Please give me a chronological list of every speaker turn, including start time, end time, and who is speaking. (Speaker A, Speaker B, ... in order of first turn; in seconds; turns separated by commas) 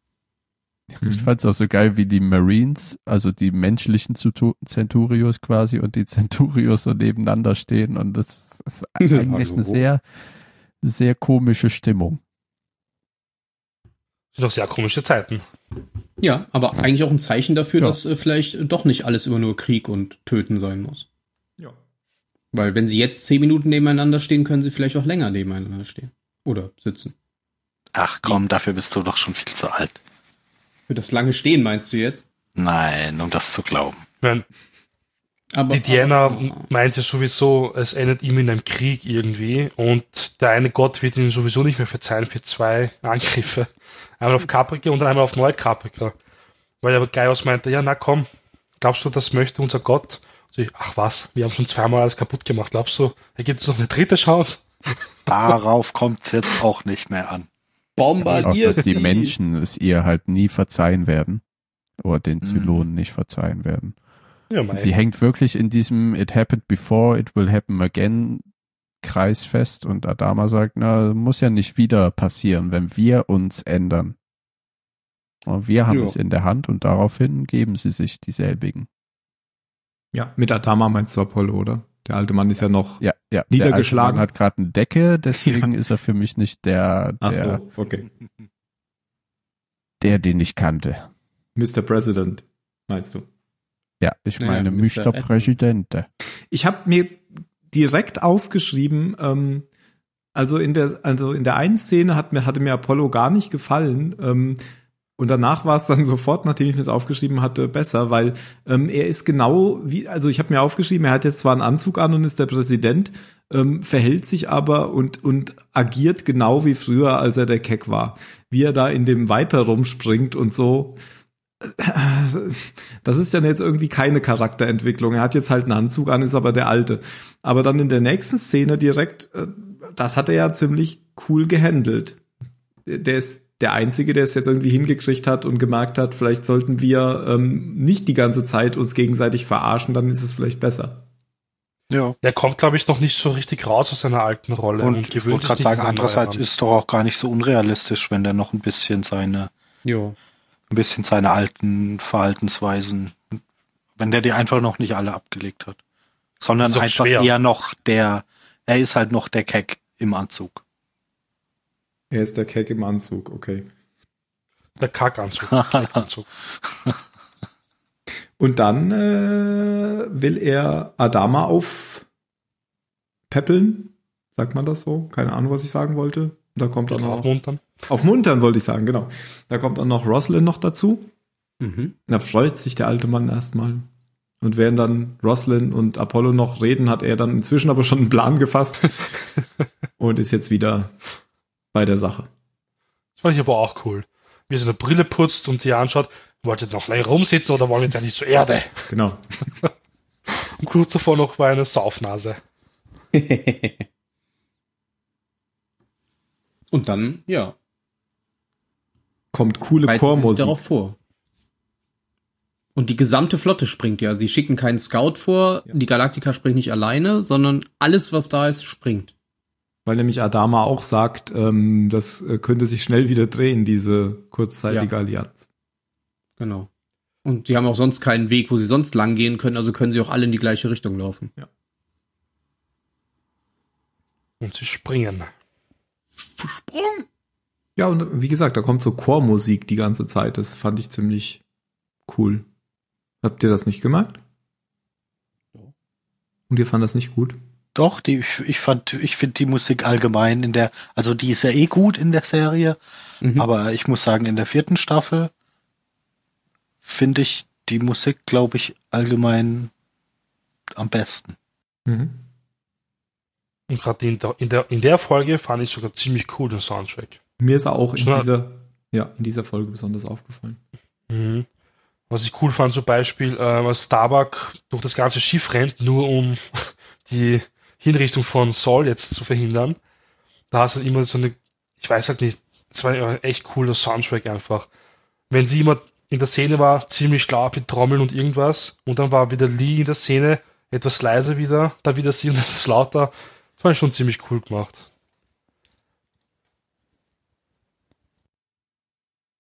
Speaker A: 0.9-10.0, Speaker B: 1.0-1.3, Speaker C: 9.0-9.8, Speaker A: 10.8-12.2, Speaker D: 14.3-15.4, Speaker C: 16.2-21.1, Speaker C: 22.5-27.1, Speaker E: 27.9-30.0, Speaker C: 30.9-32.2, Speaker E: 32.6-34.0, Speaker C: 35.5-36.6, Speaker D: 35.7-46.1, Speaker D: 46.8-48.3, Speaker D: 48.8-55.3, Speaker E: 55.3-57.5, Speaker C: 58.0-59.4, Speaker A: 58.3-61.4, Speaker A: 62.0-63.9, Speaker E: 62.4-62.9, Speaker D: 64.5-64.9, Speaker A: 64.7-68.4, Speaker A: 69.0-74.2, Speaker A: 75.5-78.9, Speaker C: 75.9-76.2, Speaker B: 80.1-84.3, Speaker A: 83.0-87.6, Speaker B: 85.4-85.7, Speaker B: 87.2-88.1, Speaker A: 90.0-91.1, Speaker B: 91.6-93.3, Speaker A: 94.0-96.1, Speaker C: 94.4-95.5, Speaker B: 96.5-99.7, Speaker B: 100.3-104.6, Speaker B: 105.2-121.0, Speaker B: 121.6-132.2, Speaker B: 132.9-141.1, Speaker E: 141.9-142.2, Speaker D: 142.2-146.4, Speaker E: 144.8-149.5, Speaker C: 149.8-150.2, Speaker E: 150.7-153.4, Speaker E: 154.0-155.8, Speaker E: 156.4-160.6, Speaker D: 156.6-157.3, Speaker B: 162.1-163.7, Speaker D: 164.8-166.3, Speaker E: 165.5-166.0, Speaker B: 168.4-172.1, Speaker B: 173.3-177.3, Speaker D: 176.9-177.7, Speaker B: 177.9-181.1, Speaker C: 181.6-181.9, Speaker B: 182.1-183.9, Speaker B: 184.4-189.0, Speaker B: 190.0-190.9, Speaker B: 191.7-192.3, Speaker D: 193.2-198.9, Speaker B: 198.9-199.2, Speaker D: 200.6-202.4, Speaker C: 203.1-203.8, Speaker C: 206.7-207.6, Speaker B: 209.3-210.6, Speaker C: 209.8-210.9, Speaker C: 212.8-219.1, Speaker B: 219.9-225.4, Speaker C: 226.4-226.7, Speaker C: 227.2-231.3, Speaker D: 234.4-235.3, Speaker C: 236.4-237.1, Speaker B: 237.8-241.4, Speaker B: 242.1-242.4, Speaker B: 243.2-244.2, Speaker B: 246.5-247.4, Speaker E: 247.8-252.8, Speaker C: 253.2-253.5, Speaker E: 253.4-255.3, Speaker E: 256.8-259.7, Speaker E: 260.8-261.4, Speaker B: 261.9-262.2, Speaker D: 263.7-267.2, Speaker B: 267.4-270.6, Speaker D: 267.9-268.3, Speaker D: 271.1-271.5, Speaker D: 272.1-279.8, Speaker D: 280.5-284.7, Speaker D: 285.3-294.9